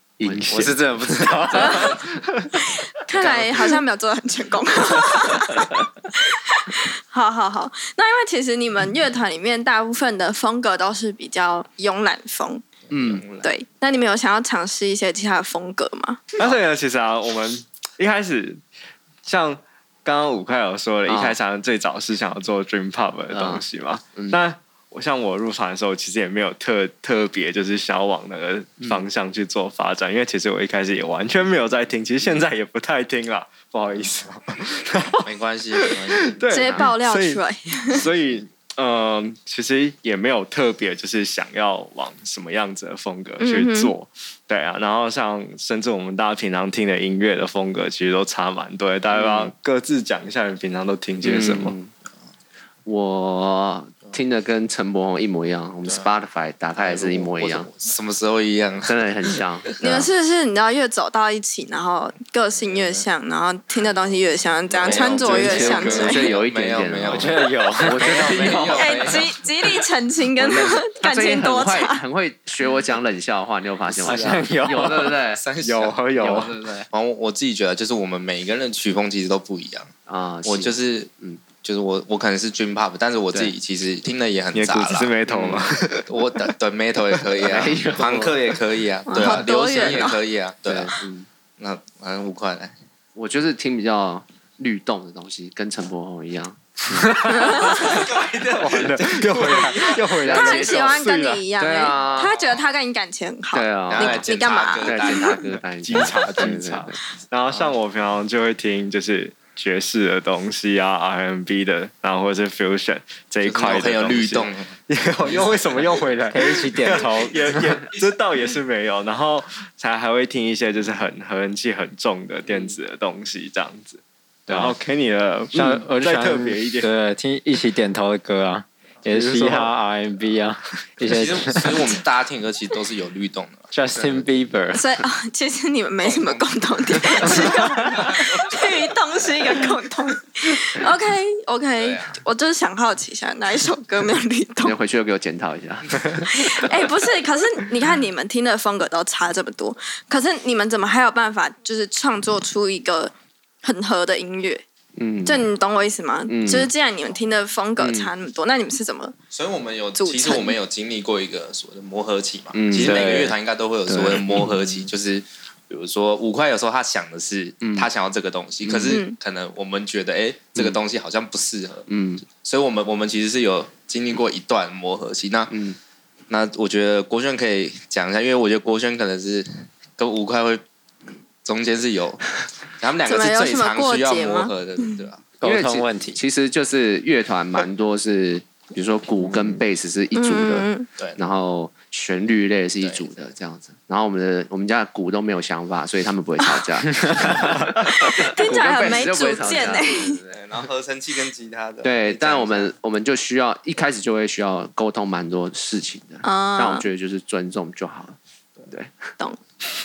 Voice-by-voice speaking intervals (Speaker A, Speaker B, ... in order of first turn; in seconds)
Speaker A: 0.2-2.1, 12.9-13.2, 21.1-21.4, 23.3-23.6, 24.2-24.4, 28.8-29.1, 49.1-49.5, 51.2-51.9, 52.9-57.7, 58.9-60.1, 64.8-69.2, 70.4-75.4, 76.2-76.9, 80.1-81.4, 87.4-88.6, 89.2-90.0, 90.7-91.3, 93.2-97.7, 100.3-100.7, 101.6-102.3, 103.5-104.3, 104.8-107.0, 122.5-122.7, 144.6-146.6, 155.0-155.5, 156.3-156.7, 157.8-158.1, 162.5-163.3, 163.9-164.9, 167.6-167.9, 168.6-169.0, 171.9-172.2, 175.5-175.8, 185.4-200.4, 201.8-208.2, 208.7-209.1
Speaker B: 0.3-0.7, 16.4-18.6, 19.2-51.8, 75.6-76.5, 84.5-86.1, 97.8-101.4, 105.8-126.9, 129.1-129.7
Speaker C: 0.3-2.0, 67.1-68.7, 74.0-75.2, 99.2-99.7, 116.3-117.8, 124.5-124.8, 125.5-131.9, 133.7-134.8, 162.8-163.3, 185.4-186.2
Speaker D: 3.0-12.6, 13.4-16.2, 36.5-38.0, 43.4-43.9, 59.8-66.3, 68.8-72.0, 89.1-90.2, 97.3-97.9, 100.3-105.3, 134.7-144.8, 146.2-154.6, 155.2-159.2, 160.0-160.6, 168.9-169.2, 183.1-184.9, 190.2-190.9, 197.9-200.2, 206.2-206.9
Speaker E: 12.9-13.5, 35.2-36.4, 56.8-60.1, 62.6-63.1, 64.7-69.4, 74.1-76.4, 76.9-79.9, 80.4-91.0, 91.6-92.8, 97.8-100.8, 102.1-102.5, 103.9-105.4, 113.4-114.8, 115.3-116.0, 131.0-133.7, 136.0-138.5, 141.8-142.2, 159.3-175.6, 176.3-180.6, 181.4-185.2, 192.8-193.1, 200.3-202.7